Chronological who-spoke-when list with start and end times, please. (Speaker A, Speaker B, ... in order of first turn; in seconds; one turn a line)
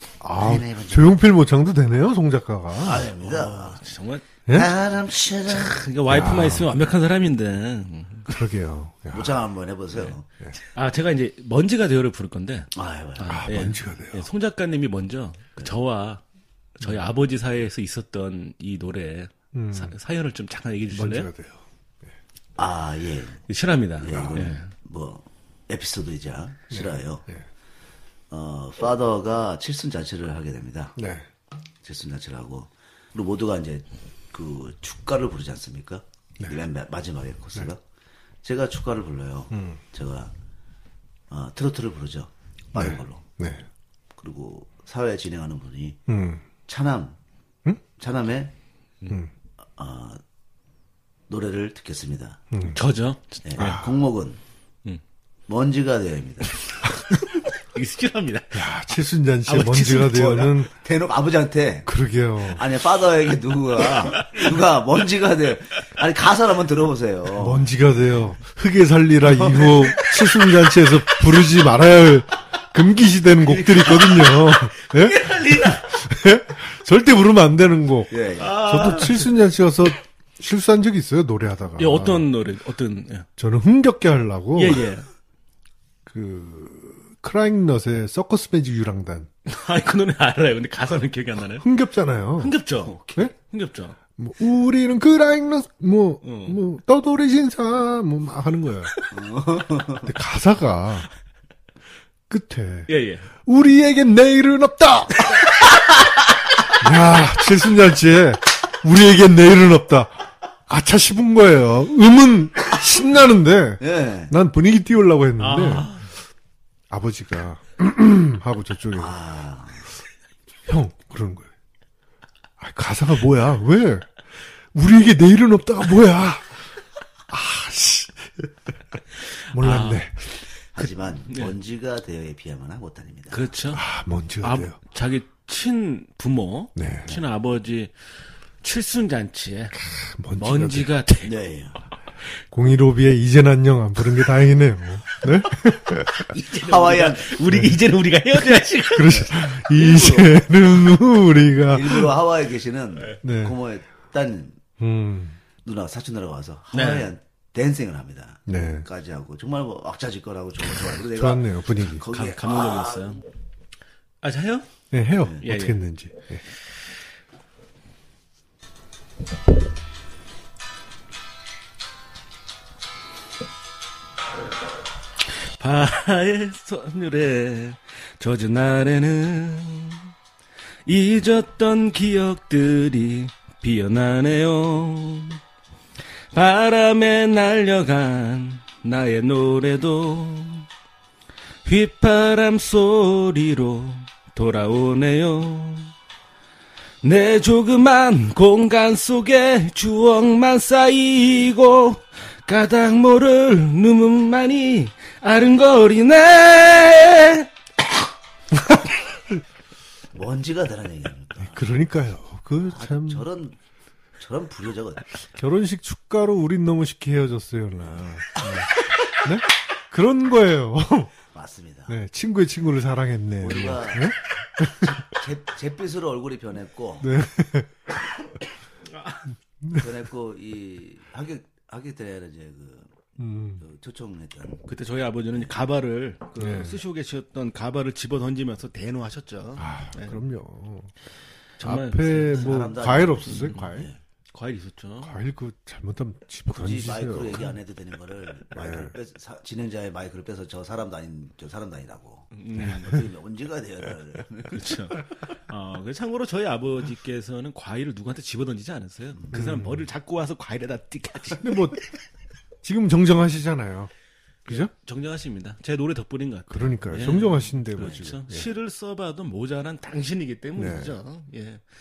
Speaker A: 0.2-3.1
Speaker B: 0.4-1.2
Speaker B: 2.8-3.8
Speaker C: 3.0-4.3
Speaker B: 4.5-5.8
Speaker C: 5.5-8.3
Speaker A: 6.1-6.7
Speaker A: 8.3-9.3
Speaker B: 9.1-10.2
Speaker C: 10.7-16.2
Speaker B: 12.7-13.4
Speaker A: 13.3-14.3
Speaker C: 16.8-21.3
Speaker A: 19.5-19.9
Speaker A: 20.9-21.6
Speaker B: 22.6-23.4
Speaker C: 23.5-24.7
Speaker B: 24.0-27.2
Speaker A: 26.7-27.4
Speaker B: 28.3-31.0
Speaker A: 30.9-31.3
Speaker B: 31.8-37.8
Speaker B: 38.4-40.3
Speaker A: 39.5-39.8
Speaker B: 41.3-43.2
Speaker A: 42.7-43.6
Speaker B: 44.2-46.0
Speaker A: 46.1-46.4
Speaker B: 46.6-47.1
Speaker B: 48.0-48.5
Speaker B: 49.8-50.2
Speaker B: 51.3-52.4
Speaker A: 52.5-52.8
Speaker C: 52.7-53.8
Speaker B: 53.4-54.4
Speaker A: 53.6-53.9
Speaker B: 55.5-56.5
Speaker C: 57.0-58.6
Speaker A: 58.5-60.7
Speaker B: 59.5-61.9
Speaker A: 61.9-62.6
Speaker B: 62.5-67.7
Speaker A: 67.4-82.3
Speaker B: 69.3-69.9
Speaker C: 73.5-75.9
Speaker B: 78.1-78.7
Speaker C: 78.4-79.3
Speaker C: 81.8-83.3
Speaker A: 83.4-84.8
Speaker C: 84.5-85.0
Speaker A: 86.1-89.3
Speaker C: 89.5-91.6
Speaker A: 91.6-93.3
Speaker C: 92.4-94.0
Speaker A: 94.2-98.9
Speaker C: 96.2-96.6
Speaker B: 99.1-100.1
Speaker A: 100.0-101.1
Speaker A: 102.3-102.9
Speaker C: 102.9-103.2
Speaker A: 103.4-105.4
Speaker A: 106.8-115.9
Speaker B: 113.8-114.3
Speaker C: 115.4-116.1
Speaker A: 116.9-119.2
Speaker B: 118.9-119.8
Speaker A: 120.7-121.5
Speaker A: 122.6-124.1
Speaker A: 124.7-126.6
Speaker A: 127.3-128.5
Speaker A: 129.5-130.3
Speaker C: 129.5-130.1
Speaker B: 130.7-133.5
Speaker C: 133.3-133.8
Speaker A: 133.7-134.7
Speaker C: 134.4-137.9
Speaker A: 136.8-137.2
Speaker C: 138.6-139.8
Speaker A: 139.7-140.9
Speaker C: 140.3-141.4
Speaker B: 141.2-141.8
Speaker A: 142.5-146.2
Speaker C: 146.2-149.3
Speaker B: 146.3-147.3
Speaker A: 147.5-147.8
Speaker A: 148.9-152.1
Speaker B: 149.0-150.5
Speaker B: 151.7-154.6
Speaker A: 153.2-153.6
Speaker A: 154.8-155.4
Speaker B: 155.6-163.2
Speaker C: 156.7-157.1
Speaker A: 158.5-158.8
Speaker A: 161.1-162.0
Speaker C: 162.1-163.2
Speaker C: 164.2-164.7
Speaker A: 164.9-166.4
Speaker C: 165.4-165.8
Speaker C: 175.5-180.1
Speaker C: 180.8-185.4
Speaker C: 186.3-190.7
Speaker C: 191.6-195.9
Speaker C: 197.0-207.5
Speaker B: 210.1-211.6
Speaker A: 211.4-213.2
Speaker B: 212.7-213.6
Speaker B: 214.2-215.1
Speaker A: 215.3-221.1
Speaker B: 221.3-221.9
Speaker A: 221.9-224.9
Speaker B: 223.4-224.1
Speaker B: 224.8-227.1
Speaker A: 227.0-227.7
Speaker B: 229.7-233.0
Speaker A: 233.2-233.6
Speaker B: 233.6-234.6
Speaker C: 234.7-240.2
Speaker A: 236.4-236.8
Speaker A: 239.6-240.9
Speaker C: 241.6-243.7
Speaker A: 241.6-243.9
Speaker B: 242.3-244.0
Speaker C: 244.3-245.2
Speaker A: 245.0-247.5
Speaker B: 246.5-254.6
Speaker A: 248.5-248.9
Speaker C: 252.3-252.9
Speaker C: 254.5-261.7
Speaker A: 259.3-259.9
Speaker A: 261.4-261.8
Speaker A: 262.6-263.9
Speaker A: 264.4-264.7
Speaker C: 264.5-271.6
Speaker A: 266.5-268.5
Speaker B: 267.8-268.1
Speaker A: 270.6-270.9